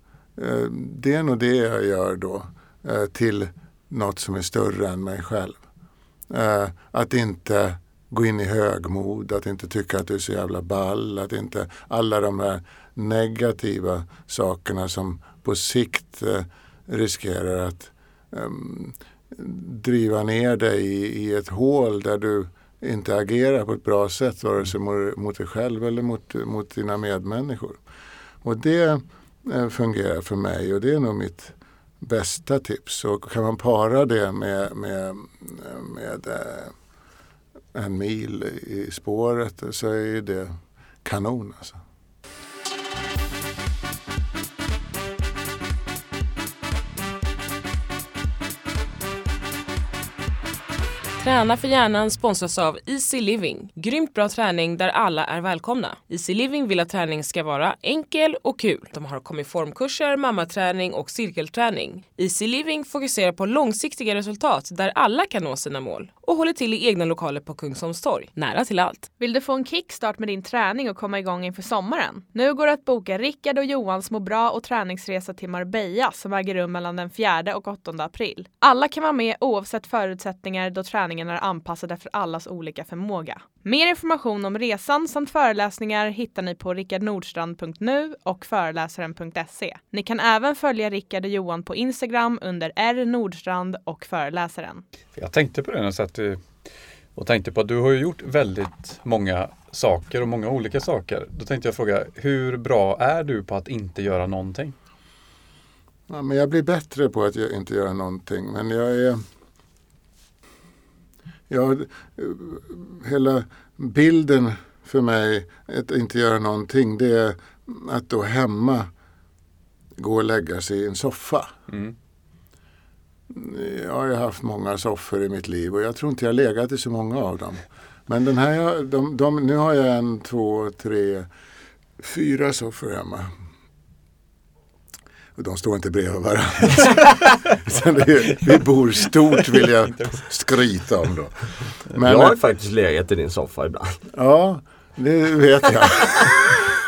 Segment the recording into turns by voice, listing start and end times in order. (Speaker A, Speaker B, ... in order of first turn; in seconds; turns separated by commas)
Speaker A: 0.4-5.6, Speaker A: 6.3-27.8, Speaker A: 28.4-36.7, Speaker A: 37.7-41.8, Speaker B: 51.2-69.1, Speaker C: 69.2-94.8, Speaker D: 95.2-96.4, Speaker D: 97.2-104.8, Speaker A: 106.1-109.2, Speaker A: 111.5-118.9, Speaker A: 120.0-121.5, Speaker D: 121.7-122.0, Speaker A: 123.3-131.3, Speaker A: 132.0-133.3, Speaker A: 135.3-142.3, Speaker D: 139.8-140.2, Speaker E: 142.0-144.0, Speaker A: 144.1-146.8